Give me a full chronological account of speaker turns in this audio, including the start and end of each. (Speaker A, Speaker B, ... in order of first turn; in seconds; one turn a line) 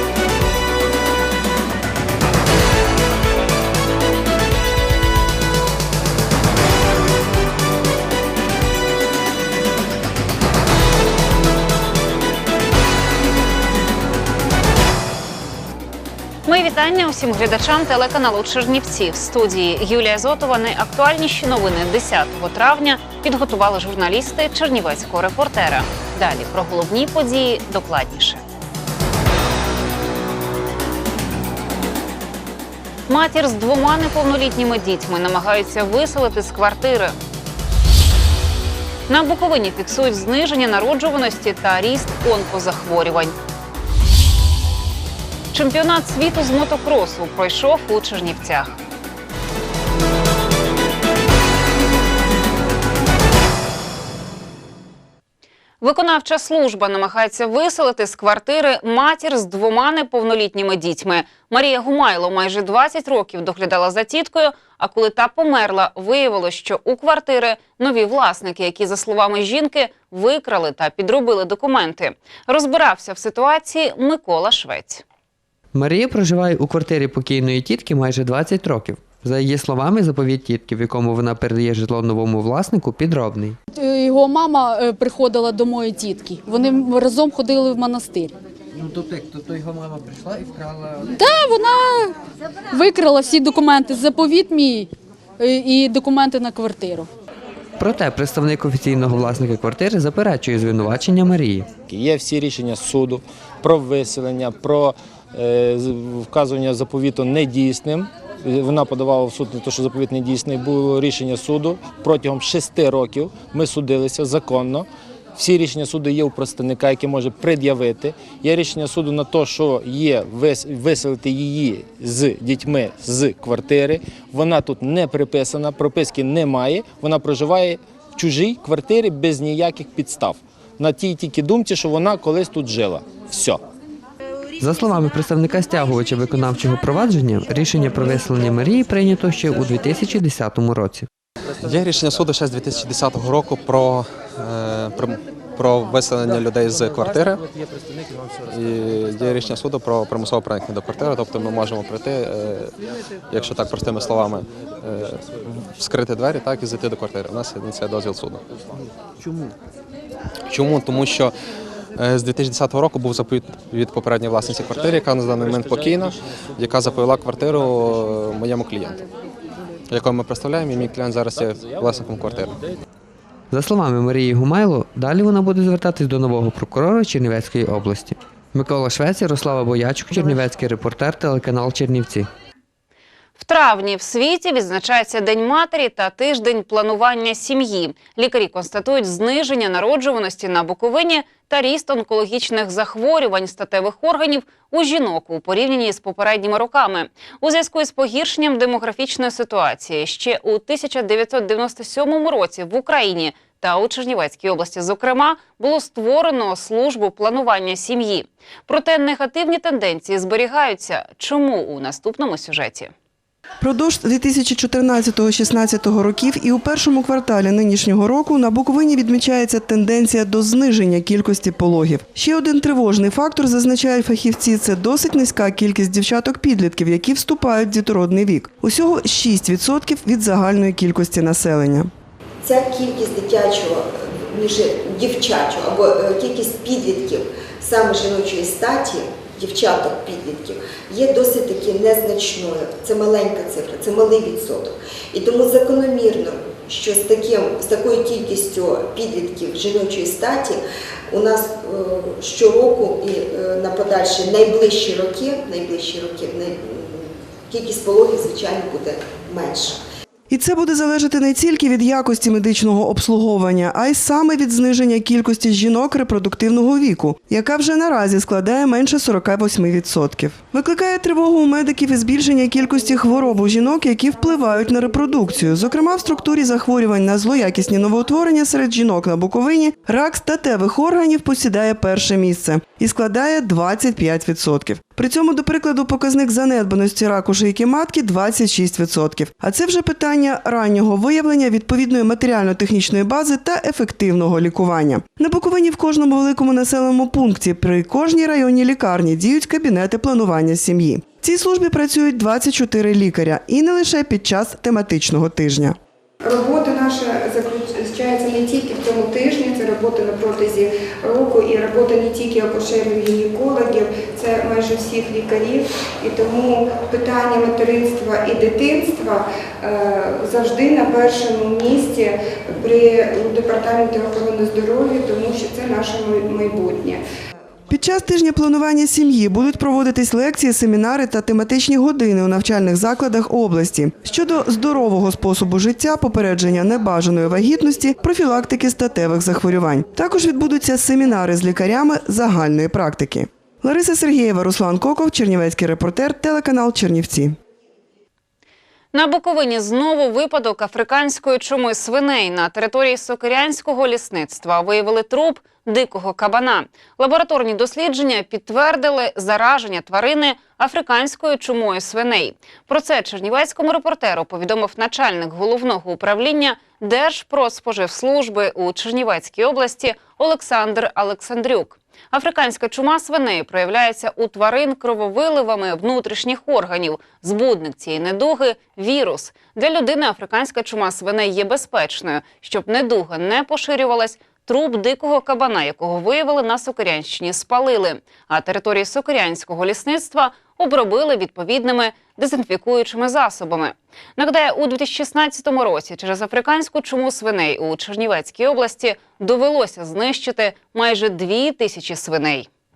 Speaker A: 16.5-28.4
Speaker A: 33.1-37.1
Speaker A: 39.1-43.3
Speaker A: 45.5-48.8
Speaker A: 55.8-75.0
Speaker B: 75.7-83.6
Speaker C: 83.8-88.3
Speaker C: 91.0-92.1
Speaker C: 92.7-97.1
Speaker B: 97.8-101.7
Speaker D: 101.9-133.6
Speaker B: 134.6-141.1
Speaker E: 141.6-147.4
Speaker E: 148.5-152.7
Speaker E: 153.3-158.4
Speaker E: 160.5-161.3
Speaker E: 161.9-169.0
Speaker E: 169.9-172.5
Speaker B: 173.5-182.3
Speaker A: 183.4-212.9
Speaker F: 213.6-231.9
Speaker G: 232.4-259.8
Speaker F: 260.3-305.8
Speaker H: 306.2-327.0
Speaker F: 327.7-347.4
Speaker A: 348.9-402.5